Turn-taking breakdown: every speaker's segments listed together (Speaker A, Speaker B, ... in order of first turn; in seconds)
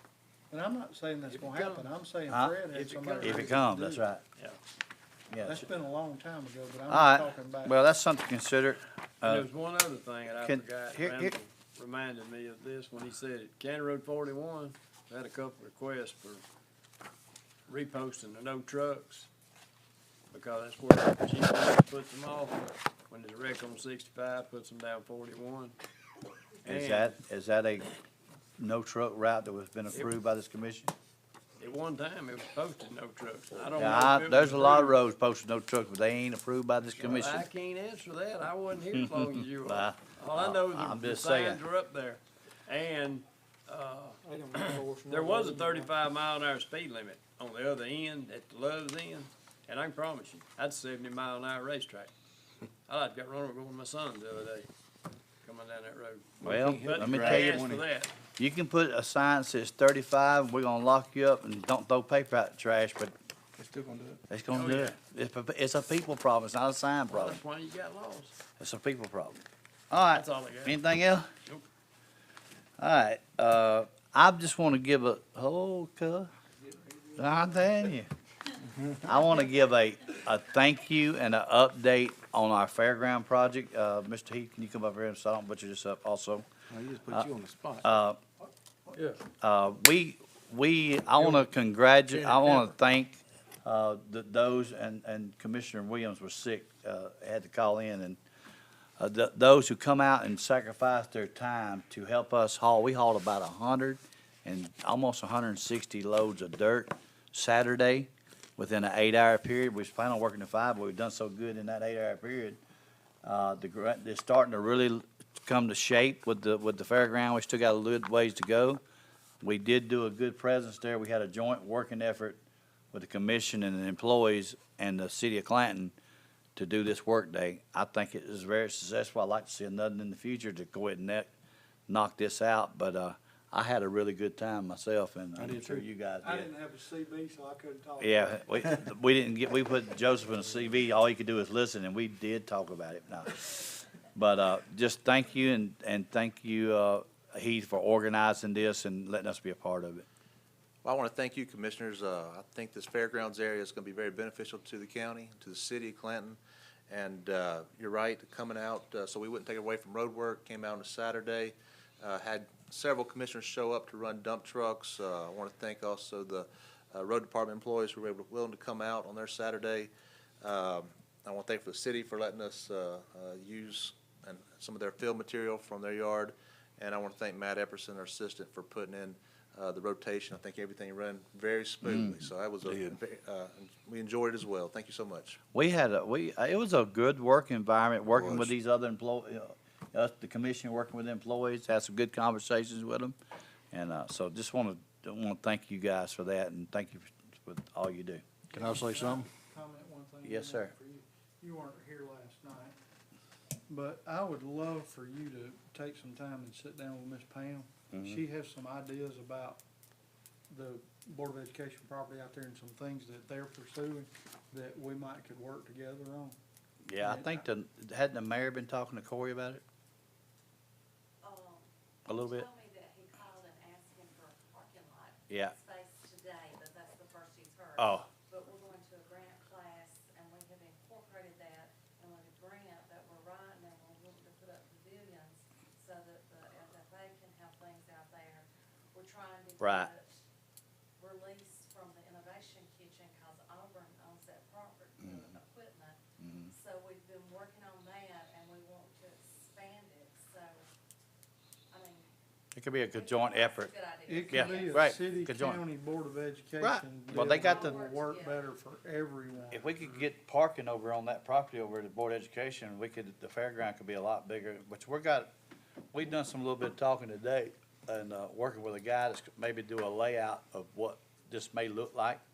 Speaker A: 0.5-4.1, 5.4-7.8, 44.2-45.9, 76.7-77.5, 136.2-138.7, 198.5-202.7, 203.7-209.6, 210.5-216.4, 217.0-217.4, 254.1-259.7
Speaker B: 1.3-1.9, 2.7-3.6, 9.2-16.4, 17.7-19.3, 20.3-25.8, 26.6-27.1, 31.6-35.0, 37.0-52.1, 52.9-54.7, 55.4-58.1, 64.5-65.0, 67.1-68.3, 70.1-70.8, 88.9-89.2
Speaker C: 3.2-4.2, 5.3-5.6, 6.9-9.4, 10.3-11.3, 26.6-27.9, 28.6-30.9, 33.7-37.4, 38.9-41.6, 56.4-57.7, 58.4-63.1, 64.3-67.4, 68.6-71.3, 72.8-76.3, 77.2-78.1, 79.0-86.5, 87.1-88.2, 89.4-98.2, 99.0-112.6, 113.2-118.8, 119.4-122.4, 122.9-125.9, 126.5-131.3, 131.9-136.5, 138.0-150.1, 181.8-182.2, 185.5-193.2, 193.7-198.2, 200.2-200.7, 207.9-208.2, 216.9-219.6, 222.1-222.5, 225.3-225.5, 227.8-228.1, 239.6-239.9, 246.2-246.5, 252.5-253.7, 254.3-255.6, 256.6-257.8, 259.5-265.3, 265.9-272.2
Speaker D: 56.4-57.9, 63.6-64.2, 86.7-87.9, 92.2-92.7, 135.4-135.8, 182.7-182.9, 198.6-199.2
Speaker E: 150.8-156.4, 156.9-185.4, 188.1-188.5
Speaker F: 221.2-240.2, 241.0-250.7, 251.7-252.1, 252.8-254.9, 257.1-258.4